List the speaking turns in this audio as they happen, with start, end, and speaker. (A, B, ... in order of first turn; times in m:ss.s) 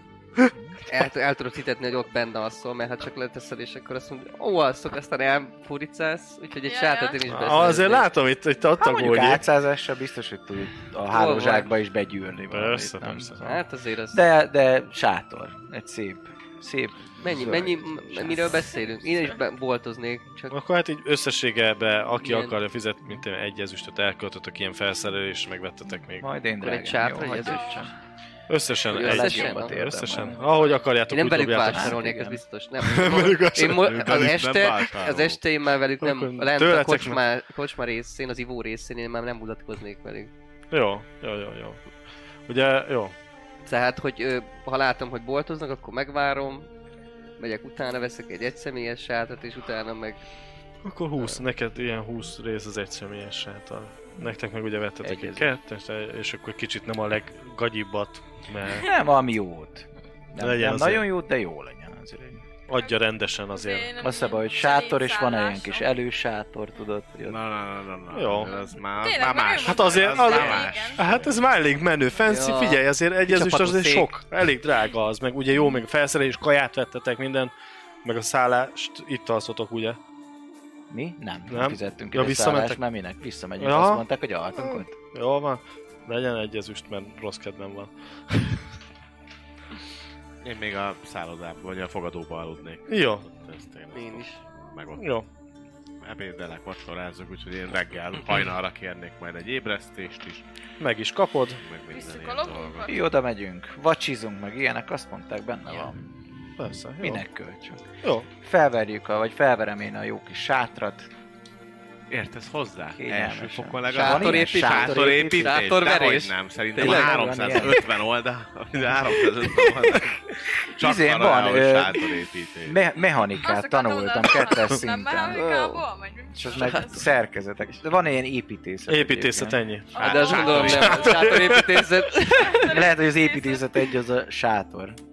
0:00.9-0:08.1 A
0:06.7-0:07.2 B
0:07.2-0:09.4 C
0:08.8-0:18.6 D
0:11.1-0:11.7 A
0:12.5-0:13.4 C
0:13.4-0:14.2 A
0:17.2-0:20.6 A
0:20.5-0:26.3 C
0:22.2-0:22.6 A
0:26.2-0:27.9 D
0:26.6-0:27.9 A
0:27.4-0:27.9 B
0:28.5-0:32.3 C
0:28.9-0:30.4 D
0:28.9-0:29.7 A
0:31.1-0:40.3 A
0:31.6-0:32.4 D
0:32.8-0:34.3 C
0:33.8-0:35.4 E
0:36.0-0:37.2 C
0:40.7-0:41.8 C
0:42.5-0:43.2 C
0:43.6-0:46.7 A
0:47.4-0:50.2 A
0:50.8-0:58.9 C
0:55.0-0:55.5 D
0:58.8-1:02.4 D
1:00.4-1:01.1 C
1:02.7-1:04.0 C
1:03.5-1:05.9 B
1:04.0-1:07.4 D
1:07.2-1:11.4 E
1:08.1-1:17.5 C
1:08.5-1:11.0 B
1:12.2-1:14.1 A
1:18.0-1:20.0 C
1:20.9-1:24.9 D
1:21.5-1:22.8 C
1:23.6-1:24.0 C
1:24.6-1:28.6 C
1:30.4-1:35.0 E
1:32.9-1:33.3 C
1:33.9-1:34.4 A
1:35.0-1:35.3 C
1:36.0-1:40.4 E
1:40.8-1:41.6 C
1:41.6-1:43.0 E
1:41.9-1:43.1 B
1:42.9-1:46.1 D
1:46.6-1:47.2 C
1:47.0-1:47.8 D
1:48.0-1:48.3 C
1:48.4-1:51.1 D
1:52.1-2:02.8 E
1:52.9-1:55.7 D
1:53.9-1:57.8 A
1:56.8-1:57.8 D
1:59.4-2:00.1 A
2:00.8-2:02.1 D
2:02.6-2:05.5 D
2:03.4-2:07.1 B
2:05.3-2:05.9 A
2:06.4-2:09.6 D
2:06.5-2:06.8 A
2:08.9-2:11.9 C
2:09.9-2:11.3 B
2:10.0-2:11.6 E
2:10.0-2:12.8 A
2:12.3-2:13.7 B
2:12.7-2:15.0 D